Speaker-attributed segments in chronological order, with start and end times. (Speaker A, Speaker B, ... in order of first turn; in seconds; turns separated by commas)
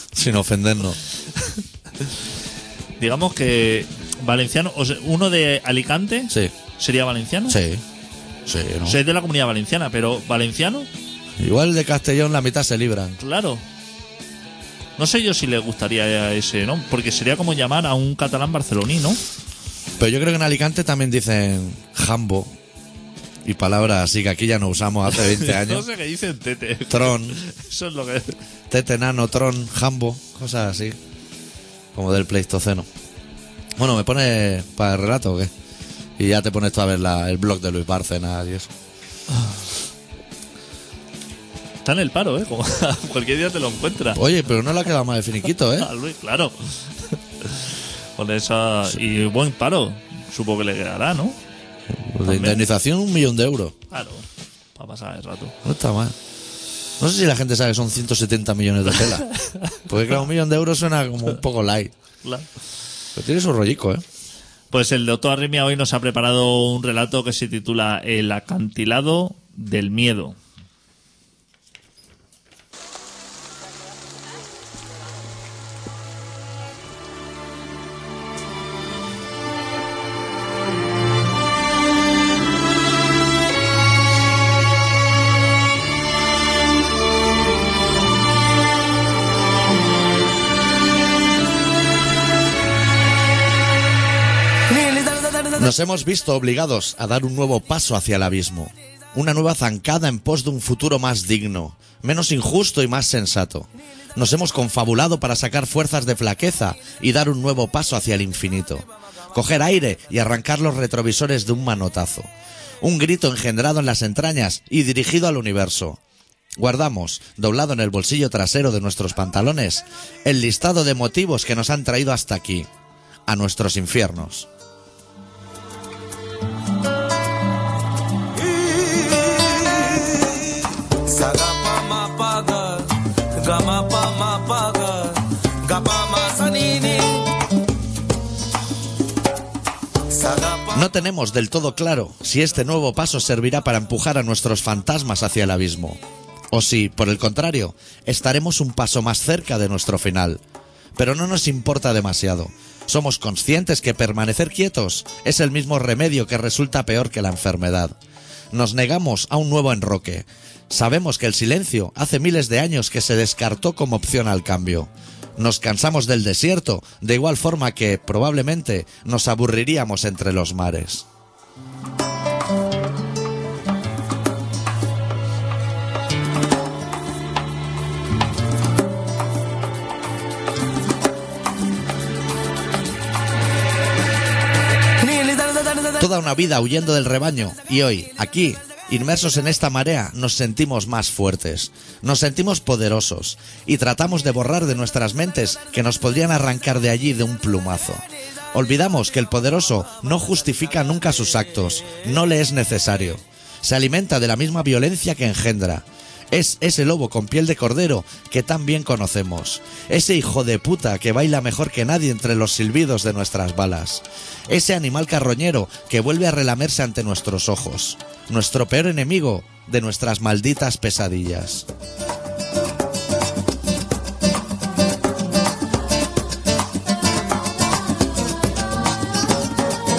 Speaker A: 0.1-1.0, Speaker B: 1.4-1.6, Speaker B: 3.0-7.6, Speaker A: 7.5-7.8, Speaker A: 8.5-9.0, Speaker B: 8.8-10.9, Speaker A: 11.4-13.2, Speaker B: 13.2-13.6, Speaker B: 15.0-19.2, Speaker A: 20.0-22.5, Speaker A: 23.4-25.9, Speaker B: 25.1-28.4, Speaker A: 26.9-27.4, Speaker A: 28.7-31.0, Speaker A: 31.9-32.9, Speaker A: 33.8-35.5, Speaker A: 36.2-38.7, Speaker B: 41.8-44.2, Speaker A: 44.1-45.9, Speaker B: 45.8-51.4, Speaker A: 51.9-53.8, Speaker B: 52.2-52.6, Speaker B: 53.9-55.6, Speaker A: 55.6-56.2, Speaker A: 57.0-59.3, Speaker B: 59.0-59.9, Speaker A: 59.9-61.9, Speaker A: 63.2-64.0, Speaker B: 64.7-70.4, Speaker A: 95.5-112.3, Speaker A: 112.8-116.0, Speaker A: 116.6-122.7, Speaker A: 123.3-124.5, Speaker C: 128.5-137.4, Speaker C: 140.1-140.8, Speaker A: 140.7-146.0, Speaker A: 146.5-150.4, Speaker A: 151.0-157.9, Speaker A: 158.5-171.1, Speaker A: 186.0-221.7